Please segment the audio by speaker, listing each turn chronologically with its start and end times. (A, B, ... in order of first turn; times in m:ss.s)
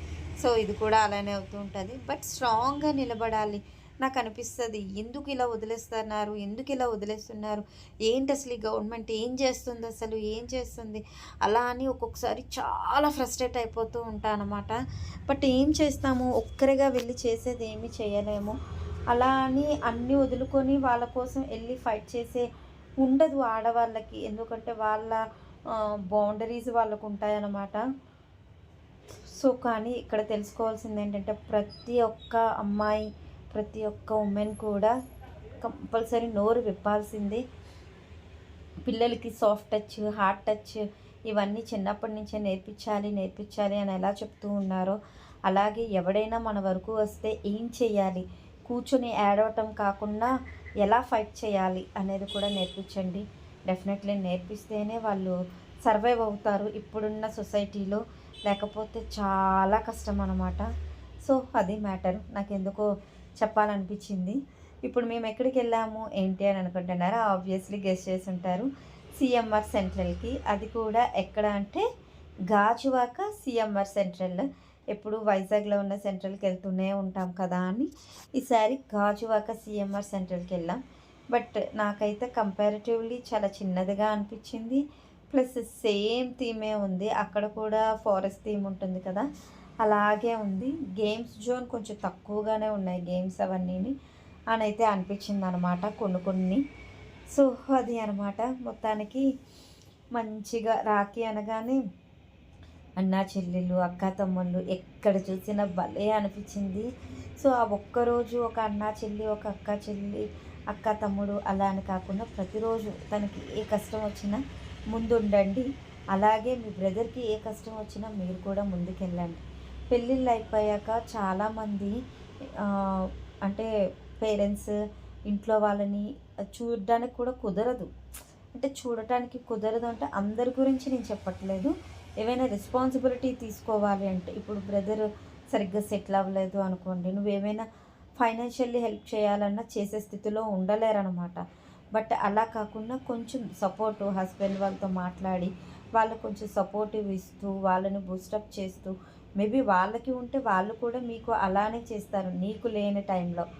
0:00.4-0:18.6 A
0:19.1-0:22.4 A
0:23.0-0:25.2 A
0:25.8-0:27.8 A
0:29.4-0:34.9 A
0:35.6-0:37.4 A
0:38.8-0:45.0 A
0:45.5-0:50.3 A
0:50.8-1:00.7 A
1:01.2-1:02.8 A
1:03.4-1:11.8 A
1:12.5-1:20.8 A
1:21.3-1:29.2 A
1:29.8-1:33.9 A
1:34.5-1:36.6 A
1:37.3-1:39.2 A
1:40.1-1:41.8 A
1:43.0-1:46.9 A
1:47.4-1:54.4 A
1:54.9-2:01.9 A
2:02.6-2:03.6 A
2:04.2-2:04.7 A
2:05.3-2:07.9 A
2:08.5-2:17.6 A
2:18.2-2:21.4 A
2:21.9-2:33.4 A